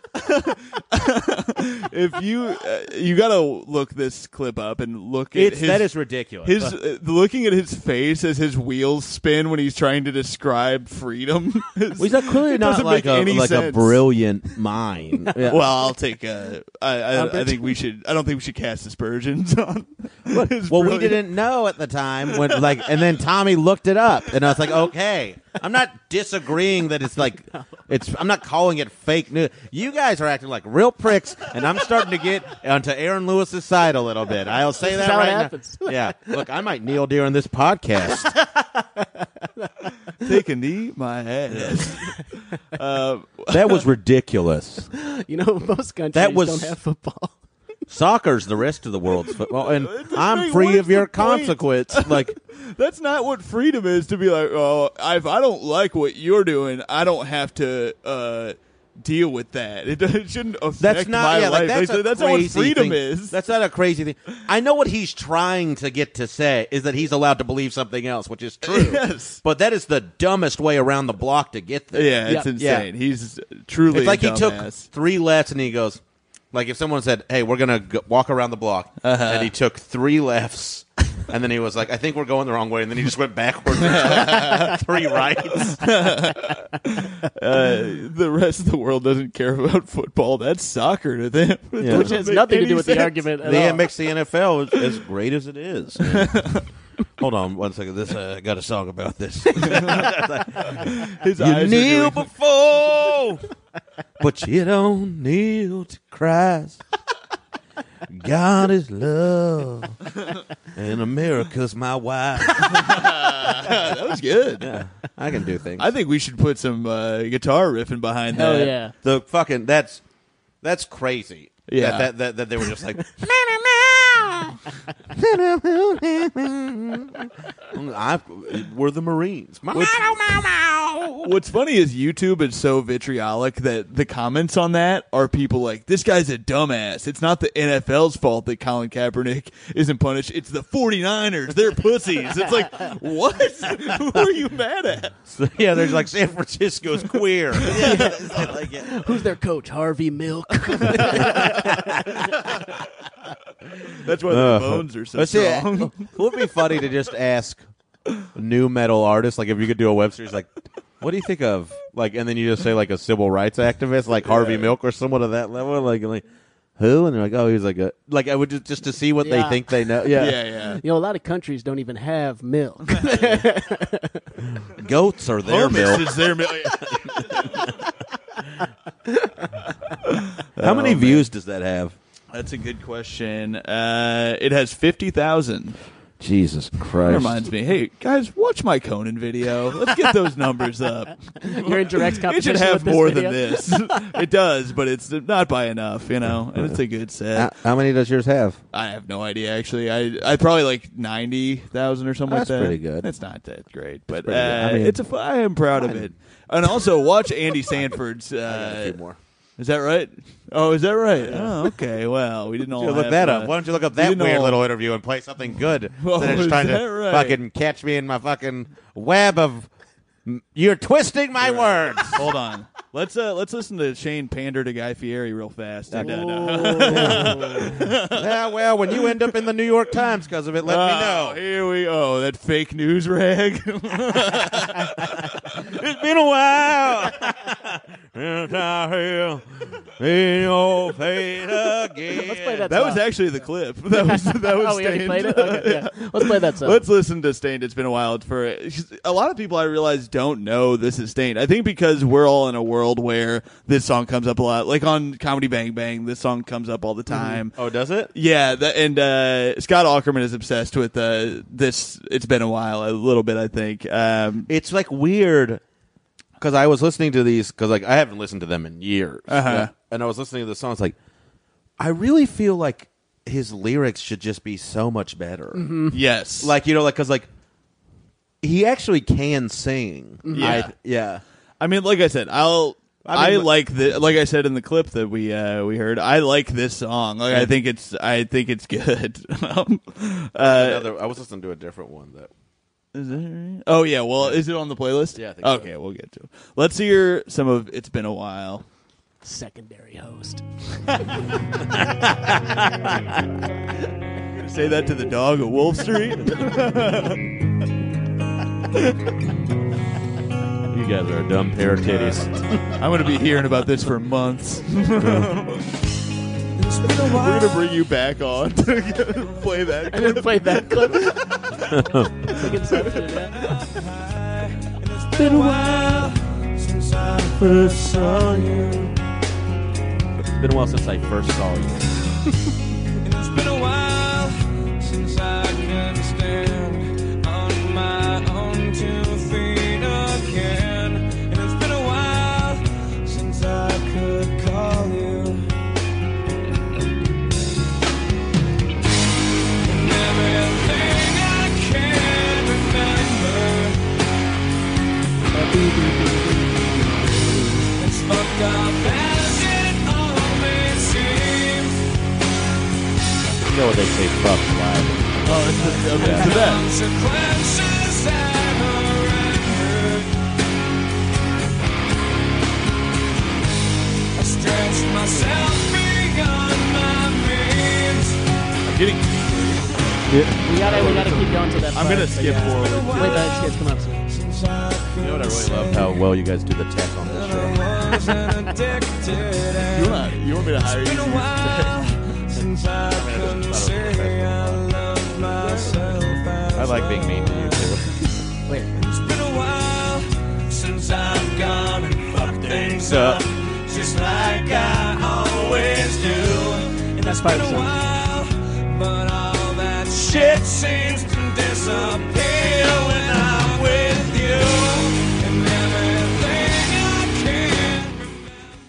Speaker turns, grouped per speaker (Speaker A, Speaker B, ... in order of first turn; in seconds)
Speaker A: 0.1-5.9, 6.4-14.0, 15.4-21.4, 22.4-22.7, 40.2-43.8, 49.6-63.4, 68.6-69.4, 71.9-74.9, 79.0-79.5, 83.8-84.8, 85.5-93.3, 96.0-96.6, 99.6-100.1, 100.7-102.3, 112.6-114.8, 115.8-118.8, 121.7-122.1, 129.7-130.2, 131.2-145.2, 147.7-148.0, 150.9-151.5, 153.9-156.1, 164.3-164.7, 170.1-170.8, 173.0-173.3, 175.4-177.8, 180.0-181.3, 182.3-185.8, 187.0-197.5, 198.7-209.0, 209.6-214.7, 216.0-217.4, 221.4-228.3, 230.6-235.4, 242.7-257.6, 258.1-264.5, 269.3-269.7, 275.9-276.6, 280.3-280.7, 281.6-290.9, 292.9-298.6, 304.4-307.3, 311.9-312.2, 312.8-315.7, 317.0-321.8, 322.3-323.0, 365.3-366.6, 378.6-379.7, 380.6-383.3, 389.6-392.0
Speaker B: 5.3-6.8, 12.0-15.7, 17.2-17.5, 20.3-38.3, 41.5-41.9, 43.5-44.9, 46.1-46.8, 47.9-52.4, 60.8-72.9, 73.9-76.0, 76.5-85.9, 91.8-92.2, 93.4-96.6, 97.2-103.4, 104.2-106.8, 108.1-110.0, 110.7-113.8, 114.6-115.9, 119.0-120.0, 120.6-124.6, 125.1-131.3, 145.3-149.2, 150.9-152.0, 154.3-157.6, 158.3-166.2, 166.8-170.4, 174.7-176.3, 176.9-177.5, 180.6-182.0, 186.2-187.5, 197.3-198.6, 202.3-203.1, 204.1-205.0, 205.8-206.1, 208.4-209.2, 211.2-211.7, 212.7-219.7, 220.2-222.3, 225.9-231.4, 235.5-239.4, 240.0-242.7, 257.5-258.1, 264.5-265.6, 266.4-270.9, 271.8-275.8, 276.4-277.3, 278.4-281.2, 283.0-283.5, 290.4-292.3, 294.2-294.5, 295.1-295.7, 301.7-303.2, 310.7-312.7, 315.0-315.3, 321.7-322.1, 325.2-326.1, 327.4-328.7, 330.2-332.1, 363.4-366.3, 380.1-381.1, 385.0-387.6, 392.9-396.0, 396.5-397.9, 402.7-403.2
Speaker C: 17.2-17.6, 34.8-36.3, 38.5-40.3, 44.9-47.4, 91.9-93.9, 118.3-118.9, 147.7-152.3, 169.2-169.7, 170.5-174.2, 191.4-194.0, 226.0-227.7, 242.1-243.1, 243.9-246.9, 275.5-275.9, 280.2-280.6, 299.2-300.4, 319.9-321.2, 322.2-323.6, 355.4-356.4, 357.2-357.5, 380.4-384.1, 407.0-407.8
Speaker D: 316.6-317.8, 323.6-328.9, 333.0-345.5, 349.6-353.8, 357.8-361.8, 365.9-370.1, 374.1-378.2, 382.4-386.0, 387.1-397.9, 398.7-418.3